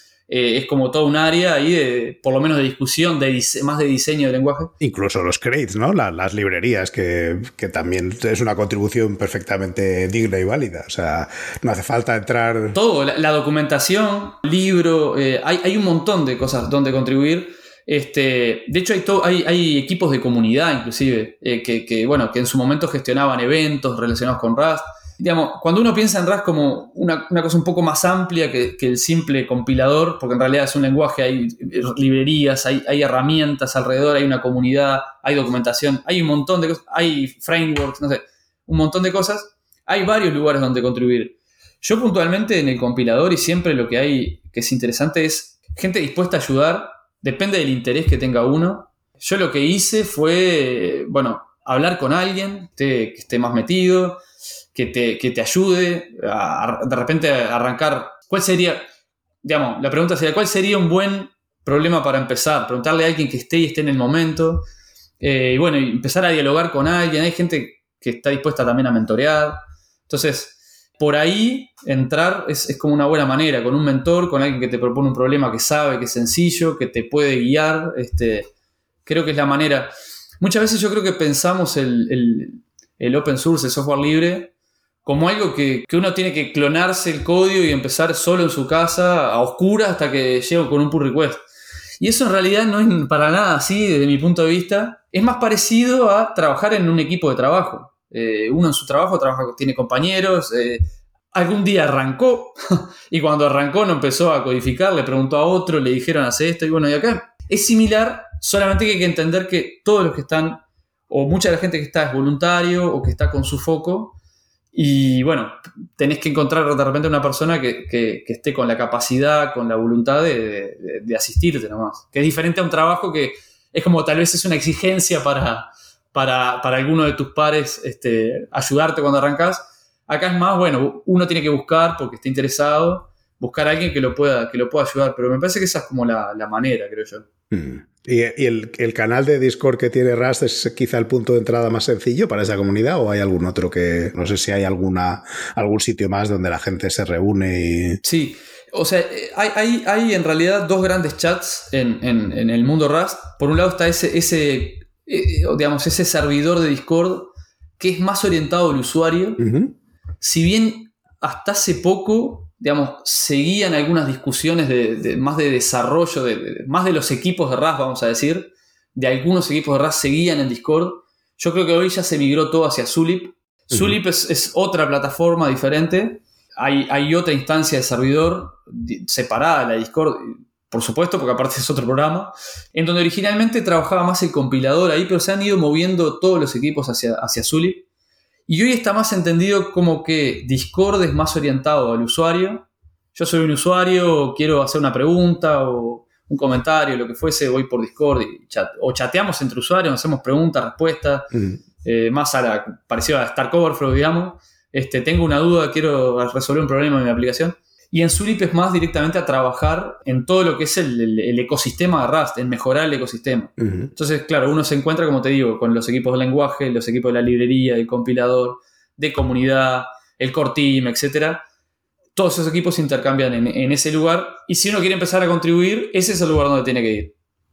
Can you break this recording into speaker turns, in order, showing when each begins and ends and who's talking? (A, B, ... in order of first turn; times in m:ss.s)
0:00.3-0:04.7 A
0:04.8-0:12.8 B
0:12.7-0:54.2 A
0:54.7-0:58.9 A
0:59.4-1:04.6 A
1:05.2-1:18.5 A
1:19.0-1:24.5 A
1:25.0-1:31.4 A
1:32.0-1:54.2 A
1:54.7-2:17.3 A
2:17.5-2:28.0 B
2:28.0-2:39.4 A
2:39.4-2:39.7 B
2:40.2-3:07.8 A
3:08.5-3:21.3 A
3:21.3-3:21.6 B
3:21.8-3:41.4 A
3:33.6-3:33.9 B
3:42.1-3:47.1 A